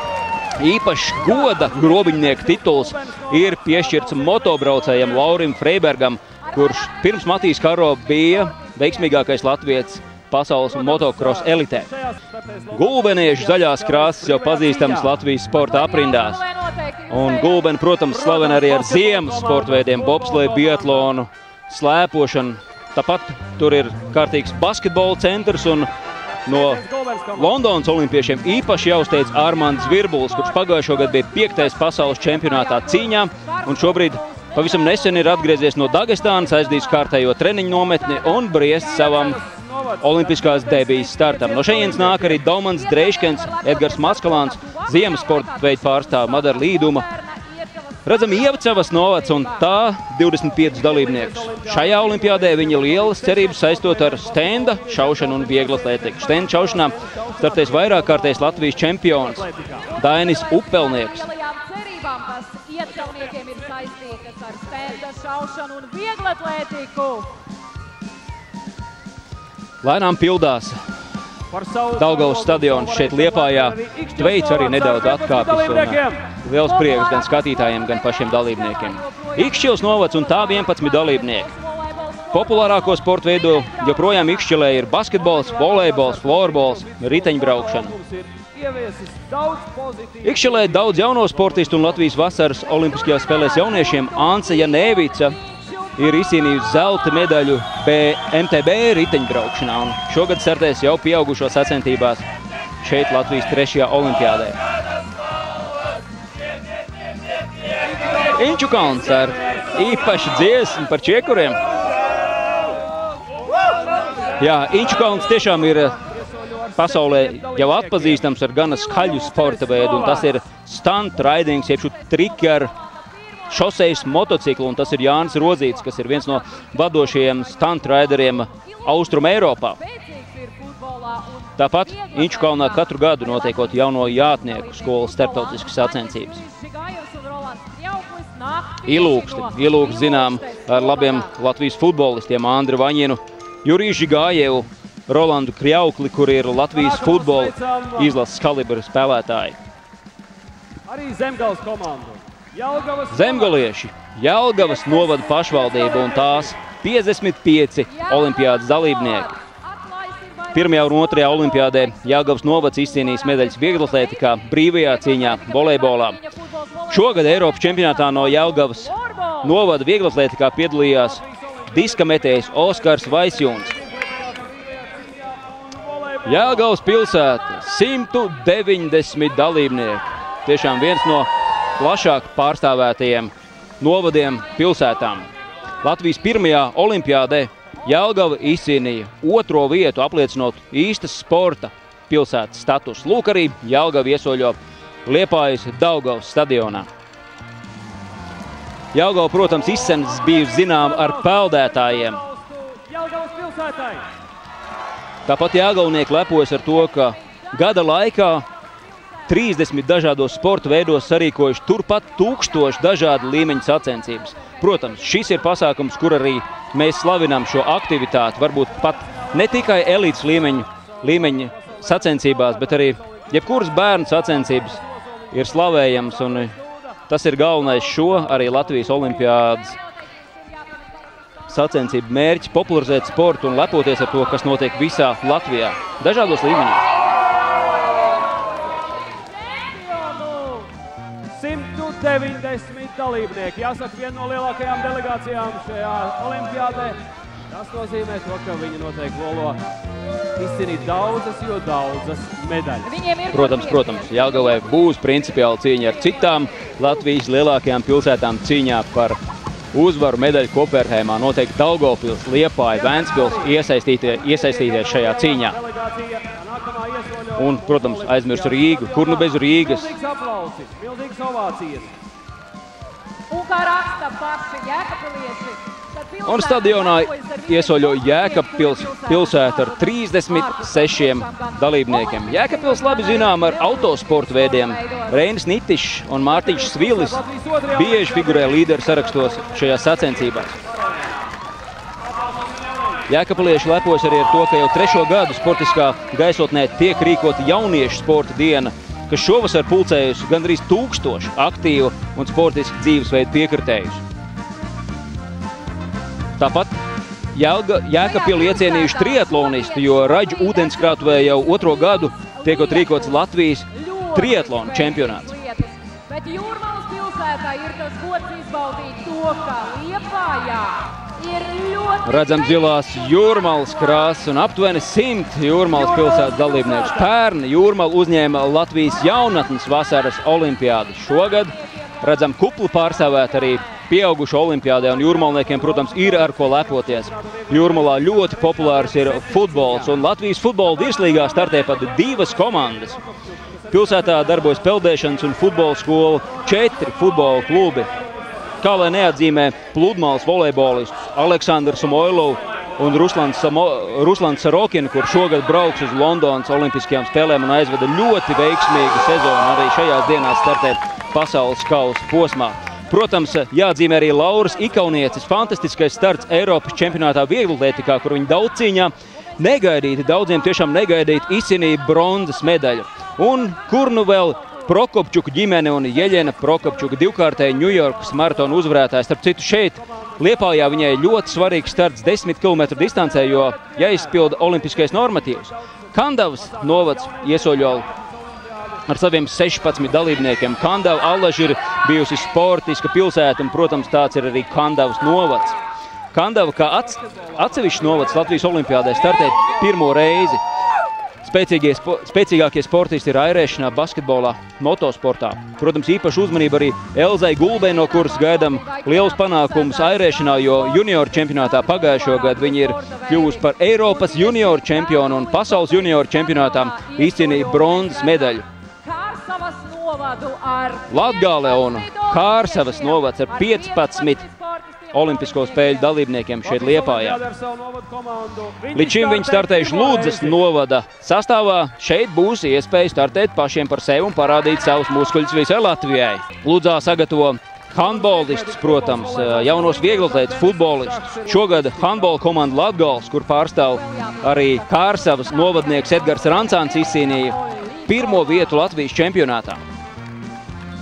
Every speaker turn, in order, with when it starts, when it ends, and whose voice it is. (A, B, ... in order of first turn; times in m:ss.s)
0:00.6-0:11.9 A
0:02.0-0:05.2 B
0:06.5-0:07.4 C
0:08.1-0:09.3 C
0:10.7-0:15.1 B
0:12.7-0:16.4 A
0:15.6-0:17.7 C
0:17.1-0:25.9 A
0:18.1-0:21.1 B
0:26.4-0:26.8 A
0:26.5-0:27.5 B
0:27.3-0:39.4 A
0:30.0-0:37.1 C
0:38.8-0:42.4 B
0:40.0-0:47.0 A
0:41.4-0:49.6 C
0:48.0-1:01.3 A
0:50.9-0:59.9 B
0:59.9-1:07.3 C
1:09.8-1:10.8 A
1:11.5-1:16.2 B
1:12.0-1:21.5 A
1:16.6-1:24.5 C
1:22.3-1:27.9 A
1:25.2-1:32.5 B
1:30.2-1:35.4 A
1:32.8-1:36.9 C
1:36.0-1:42.2 A
1:42.8-1:44.6 A
1:48.2-1:51.6 A
1:54.4-1:56.0 A
1:56.0-1:58.3 B
1:56.8-2:02.7 A
1:58.8-2:00.3 C
2:01.6-2:21.3 C
2:03.5-2:09.8 A
2:11.6-2:16.4 A
2:18.8-2:29.6 A
2:26.7-2:28.2 B
2:30.9-2:33.7 B
2:33.1-2:39.3 A
2:34.6-2:36.4 C
2:37.9-2:49.6 C
2:40.5-2:46.2 A
2:46.9-2:53.7 A
2:52.9-2:56.7 B
2:56.2-3:05.3 A
3:05.8-3:16.9 A
3:18.9-3:22.2 A
3:20.2-3:24.1 B
3:25.2-3:28.4 A
3:29.3-3:46.5 A
3:41.7-3:43.1 B
3:45.8-3:46.5 B
3:47.1-3:49.8 A
3:48.7-3:51.5 C
3:51.5-3:56.8 A
3:59.3-4:00.7 C
4:01.3-4:09.6 B
4:10.4-4:13.0 B
4:12.8-4:14.6 C
4:13.3-4:19.2 A
4:19.7-4:25.6 A
4:24.5-4:31.9 B
4:27.4-4:29.9 A
4:33.3-4:45.2 C
4:36.2-4:50.5 A
4:46.4-4:49.5 B
4:53.1-5:04.0 A
5:06.4-5:06.8 A
5:07.3-5:15.3 A
5:08.0-5:24.2 C
5:22.0-5:43.0 A
5:25.7-5:27.1 B
5:31.0-5:33.6 C
5:35.2-5:39.9 B
5:41.0-5:43.0 B
5:43.7-5:44.6 B
5:43.7-5:47.9 A
5:48.6-6:27.9 A
6:09.2-6:11.1 C
6:13.4-6:14.6 C
6:23.6-6:24.4 B
6:26.5-6:28.8 B
6:28.9-6:35.6 A
6:36.1-6:40.4 A
6:36.8-6:38.6 B
6:41.2-6:58.4 A
6:47.4-7:06.0 C
7:00.9-7:04.2 A
7:04.9-7:07.2 A
7:06.4-7:10.4 B
7:08.7-7:29.6 A
7:17.8-7:22.2 B
7:23.7-7:28.6 C